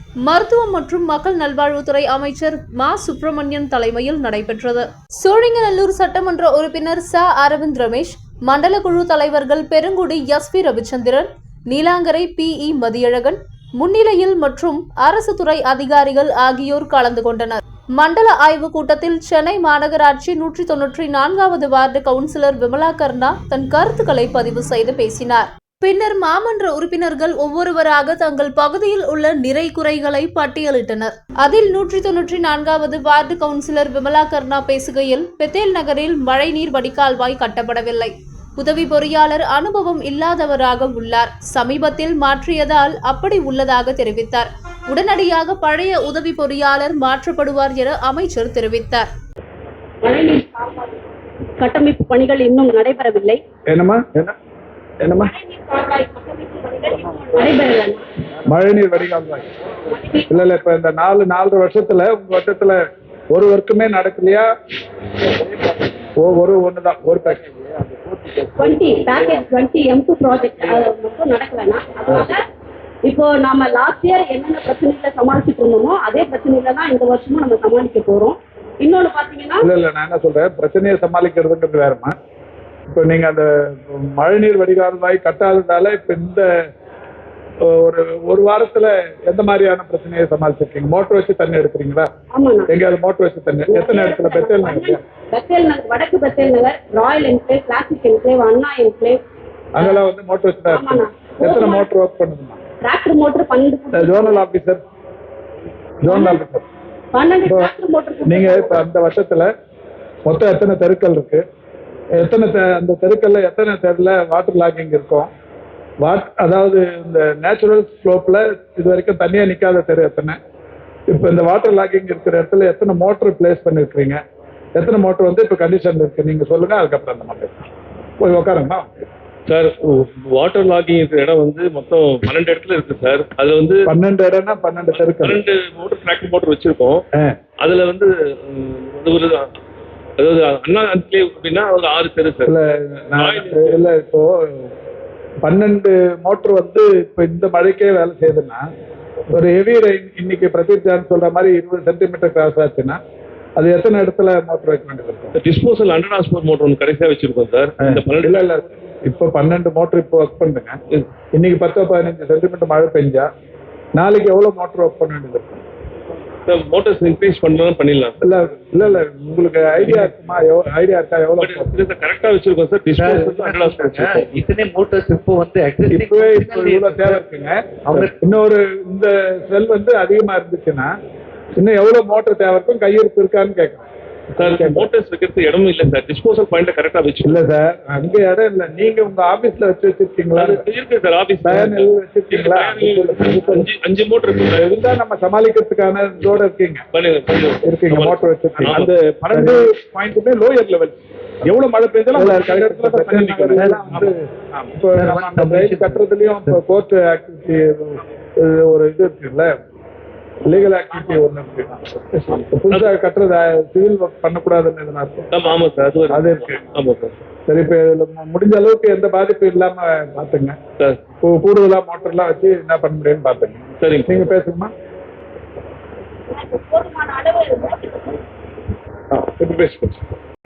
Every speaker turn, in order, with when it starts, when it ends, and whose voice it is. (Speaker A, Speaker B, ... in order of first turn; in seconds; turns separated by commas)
Speaker A: 0.2-49.1, Speaker B: 50.0-51.0, Speaker B: 51.6-53.4, Speaker C: 53.7-54.3, Speaker C: 55.0-55.3, Speaker B: 55.1-58.0, Speaker C: 58.5-59.5, Speaker B: 59.9-60.5, Speaker C: 60.3-62.8, Speaker C: 63.3-64.5, Speaker C: 66.2-67.4, Speaker B: 68.5-72.4, Speaker B: 73.1-79.7, Speaker C: 79.6-82.1, Speaker C: 82.9-86.5, Speaker C: 87.6-92.1, Speaker B: 92.3-92.7, Speaker C: 92.7-95.0, Speaker B: 93.7-99.2, Speaker C: 99.8-102.6, Speaker B: 99.8-100.1, Speaker B: 100.7-101.9, Speaker B: 102.8-104.5, Speaker C: 103.9-104.8, Speaker C: 106.0-106.6, Speaker B: 106.0-106.4, Speaker B: 107.1-108.8, Speaker C: 108.2-109.5, Speaker C: 110.3-111.4, Speaker C: 112.2-115.3, Speaker C: 116.0-120.4, Speaker C: 121.1-124.2, Speaker C: 124.8-127.5, Speaker C: 128.2-128.8, Speaker D: 129.5-133.8, Speaker C: 133.9-135.4, Speaker D: 134.9-137.0, Speaker D: 137.6-139.5, Speaker D: 140.2-142.5, Speaker C: 142.4-144.7, Speaker D: 143.2-143.8, Speaker C: 145.4-148.6, Speaker C: 149.3-153.0, Speaker C: 153.6-155.3, Speaker D: 155.3-158.5, Speaker C: 157.8-160.8, Speaker C: 161.3-163.3, Speaker C: 163.9-165.6, Speaker D: 166.4-168.2, Speaker C: 168.2-171.7, Speaker D: 171.4-174.2, Speaker E: 172.9-177.2, Speaker C: 175.9-180.9, Speaker E: 177.9-178.1, Speaker C: 181.6-183.8, Speaker D: 184.4-187.4, Speaker C: 184.4-184.9, Speaker C: 187.2-190.6, Speaker D: 190.3-194.8, Speaker C: 191.4-193.7, Speaker C: 194.6-196.8, Speaker D: 196.9-199.5, Speaker C: 197.6-209.5, Speaker E: 199.3-199.6, Speaker E: 202.2-204.1, Speaker E: 204.9-206.6, Speaker C: 210.4-215.3, Speaker D: 215.3-217.1, Speaker C: 216.1-216.6, Speaker C: 217.5-220.6, Speaker C: 221.2-224.7, Speaker D: 223.8-224.2, Speaker B: 226.3-228.2, Speaker C: 229.1-230.1